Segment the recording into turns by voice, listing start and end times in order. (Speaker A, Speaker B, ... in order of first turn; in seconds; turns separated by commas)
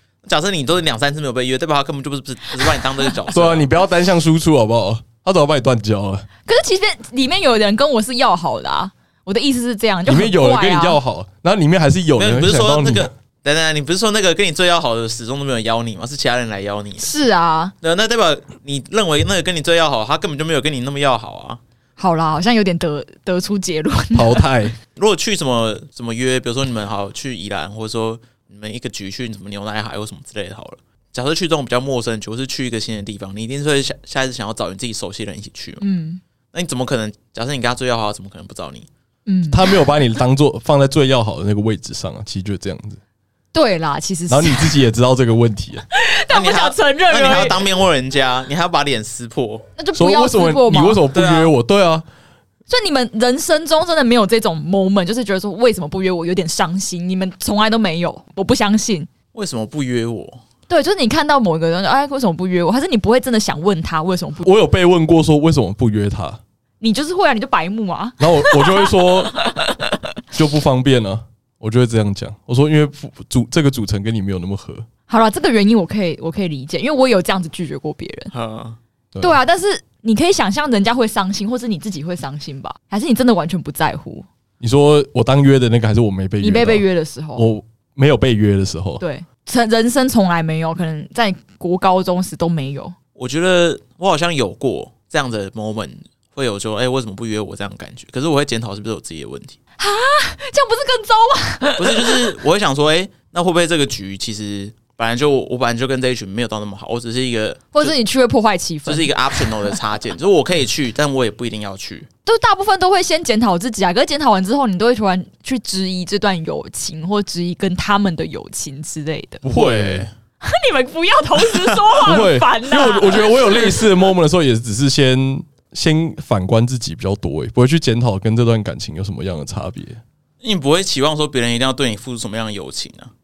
Speaker A: 0.2-3.7, Speaker B: 2.8-3.1, Speaker C: 3.3-6.2, Speaker B: 6.5-11.0, Speaker C: 10.1-13.1, Speaker A: 12.2-17.1, Speaker B: 17.0-17.7, Speaker A: 17.8-21.6, Speaker B: 22.0-24.5, Speaker C: 24.1-24.7, Speaker A: 24.9-35.8, Speaker B: 35.8-36.2, Speaker A: 36.5-38.9, Speaker B: 39.2-39.8, Speaker C: 39.5-43.0, Speaker B: 43.5-44.8, Speaker C: 44.3-45.8, Speaker B: 45.9-47.7, Speaker A: 46.3-49.7, Speaker B: 49.8-51.0, Speaker C: 49.9-52.0, Speaker A: 51.1-51.5, Speaker B: 52.7-59.1, Speaker A: 59.3-60.4, Speaker B: 60.7-64.5, Speaker C: 64.4-66.4, Speaker B: 66.8-69.6, Speaker C: 68.2-69.3, Speaker C: 70.3-74.8, Speaker B: 75.1-78.3, Speaker A: 78.3-78.8, Speaker B: 79.2-84.3, Speaker C: 84.6-89.0, Speaker B: 86.4-87.5, Speaker B: 89.0-92.9, Speaker A: 93.2-99.6, Speaker B: 99.8-102.2, Speaker A: 101.8-108.0, Speaker B: 107.7-109.7, Speaker A: 108.8-112.1, Speaker B: 112.2-119.4, Speaker C: 119.4-120.1, Speaker A: 119.5-120.1, Speaker B: 120.4-123.9, Speaker C: 122.0-130.0, Speaker A: 130.4-133.1